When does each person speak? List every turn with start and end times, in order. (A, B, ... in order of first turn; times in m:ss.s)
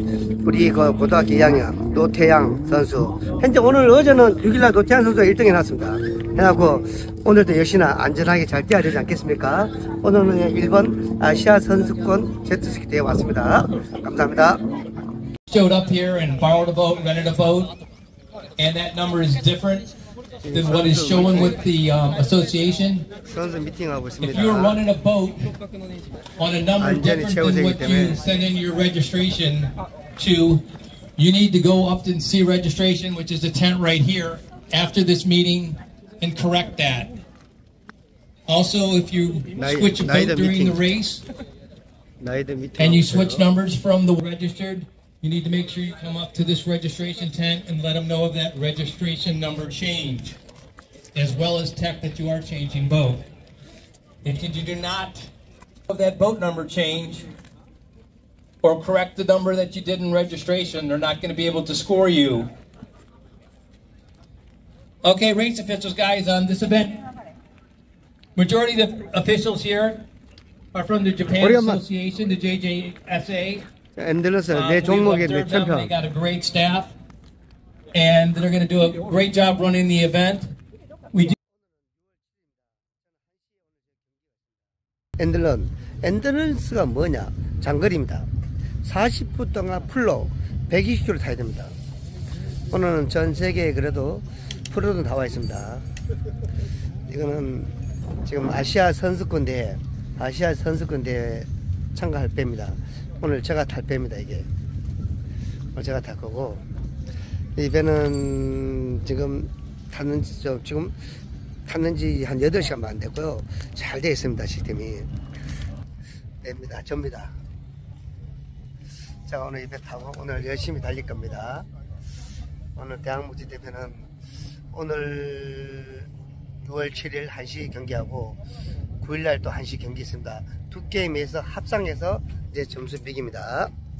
0:00.4-0:14.6 A
0:15.5-0:17.7 B
0:18.6-0:19.8 B
0:20.4-0:21.5 A
0:20.5-0:23.0 B
0:23.3-0:24.8 A
0:24.2-0:25.5 B
0:26.4-0:30.6 B
0:26.8-0:28.2 A
0:31.2-0:37.1 B
0:38.5-0:41.2 B
0:39.5-0:40.8 A
0:42.2-0:43.4 A
0:42.8-0:50.4 B
0:51.1-0:53.3 B
0:54.2-0:55.3 B
0:55.9-0:57.3 B
0:58.6-1:02.5 B
1:05.0-1:07.0 B
1:08.4-1:10.0 B
1:10.7-1:13.6 B
1:11.4-1:11.8 A
1:14.0-1:15.9 A
1:14.5-1:16.9 B
1:17.9-1:20.5 B
1:25.2-1:28.3 A
1:28.8-1:31.7 A
1:32.7-1:35.8 A
1:37.1-1:37.7 A
1:38.2-1:44.5 A
1:45.7-1:46.6 A
1:47.6-1:50.9 A
1:51.7-1:55.1 A
1:56.4-1:57.3 A
1:59.3-2:01.7 A
2:02.8-2:04.1 A
2:04.7-2:06.1 A
2:06.6-2:08.4 A
2:09.0-2:13.7 A